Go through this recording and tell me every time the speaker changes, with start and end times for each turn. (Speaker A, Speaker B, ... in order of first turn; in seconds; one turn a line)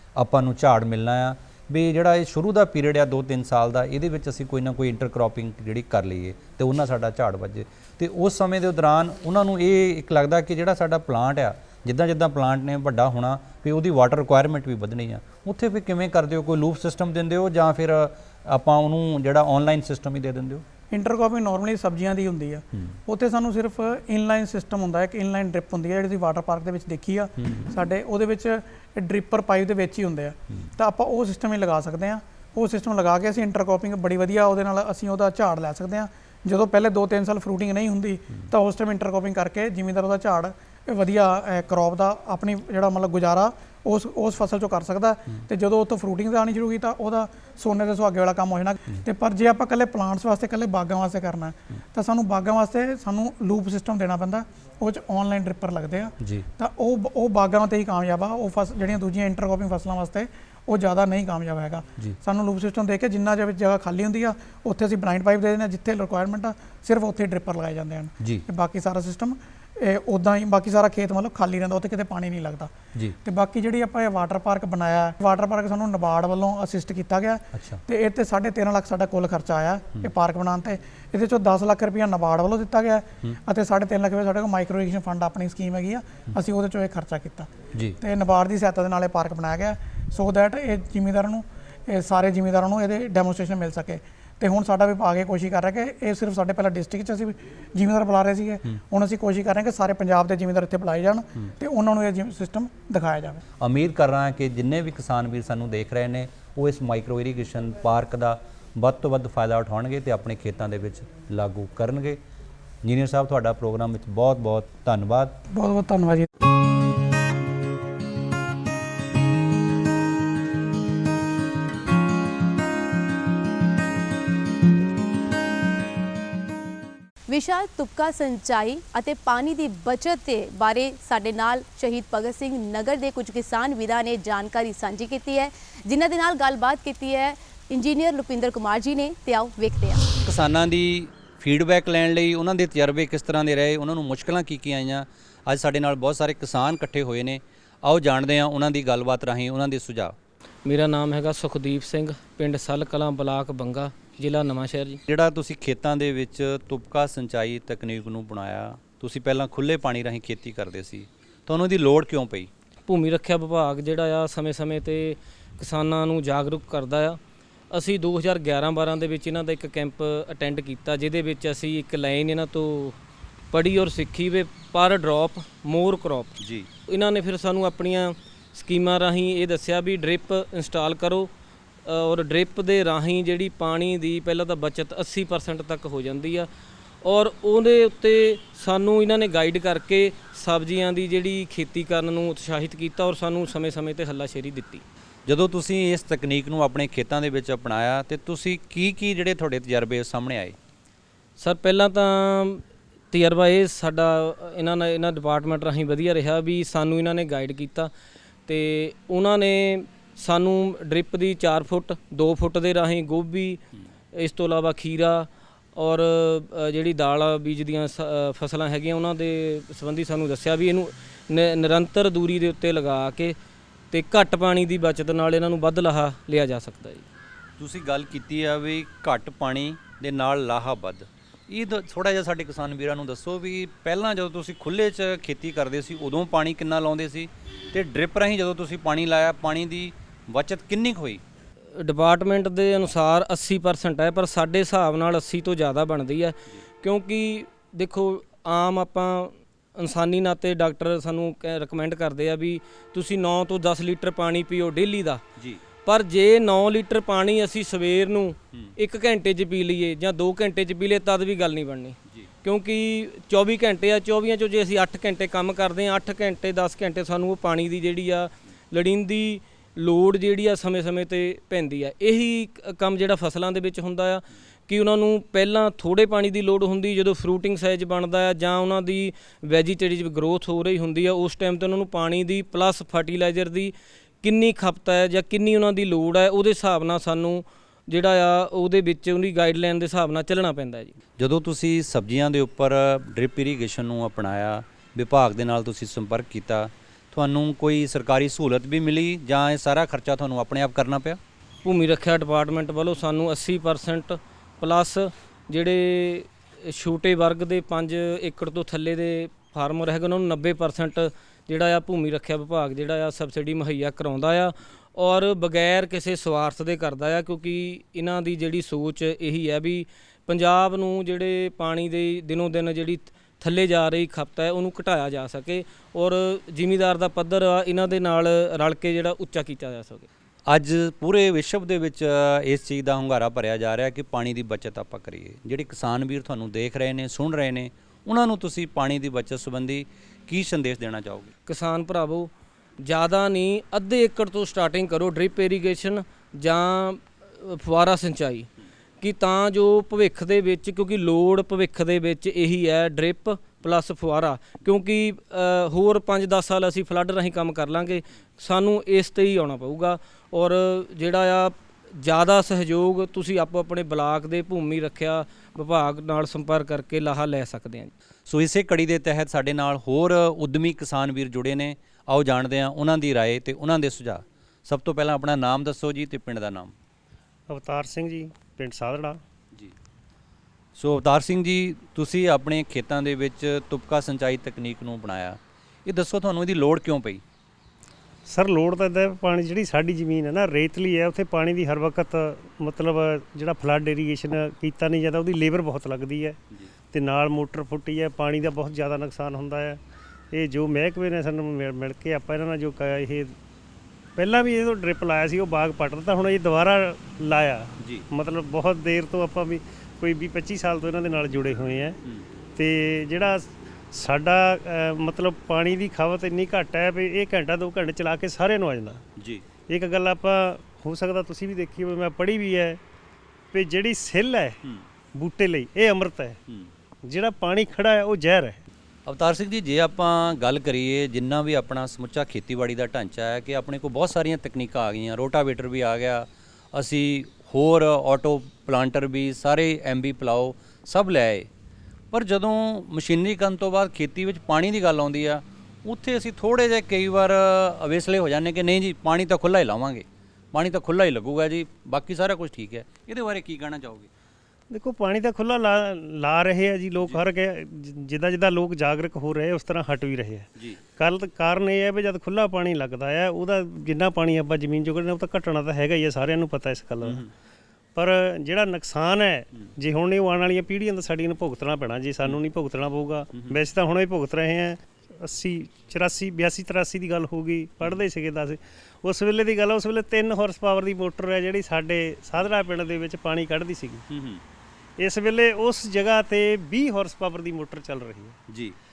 Speaker A: 0.2-20.6
Speaker B: 20.9-72.7
Speaker A: 56.2-56.5
Speaker A: 68.2-68.5
Speaker B: 73.2-103.4
Speaker A: 77.5-77.8
Speaker A: 103.6-112.2
Speaker A: 112.8-115.4
Speaker B: 115.5-116.3
Speaker C: 127.3-140.1
Speaker A: 140.2-150.2
Speaker D: 150.7-155.0
Speaker A: 155.1-162.5
Speaker D: 162.9-167.2
Speaker D: 167.7-173.0
Speaker D: 173.5-181.3
Speaker A: 176.4-176.7
Speaker D: 181.8-186.5
Speaker D: 187.0-194.8
Speaker A: 195.3-200.6
Speaker D: 201.4-207.9
Speaker D: 208.5-213.6
Speaker D: 214.1-223.4
Speaker D: 223.9-227.1
Speaker A: 227.6-241.2
Speaker D: 241.8-255.2
Speaker A: 255.4-255.6
Speaker D: 255.8-291.0
Speaker A: 291.2-301.2
Speaker D: 301.6-330.1
Speaker A: 330.5-341.3
Speaker D: 341.5-348.5
Speaker D: 349.0-367.9
Speaker A: 368.3-376.8
Speaker E: 377.5-379.2
Speaker A: 380.8-387.2
Speaker E: 388.3-396.4
Speaker E: 396.9-403.4
Speaker E: 404.2-412.0
Speaker A: 407.8-408.1
Speaker E: 412.6-419.0
Speaker A: 419.2-419.5
Speaker E: 419.7-422.8
Speaker E: 423.5-424.6
Speaker E: 425.1-426.4
Speaker E: 427.1-428.6
Speaker A: 429.1-441.5
Speaker A: 442.1-454.1
Speaker E: 454.7-467.2
Speaker A: 467.0-467.3
Speaker E: 467.9-484.1
Speaker A: 484.1-484.4
Speaker E: 485.0-488.4
Speaker A: 488.5-488.8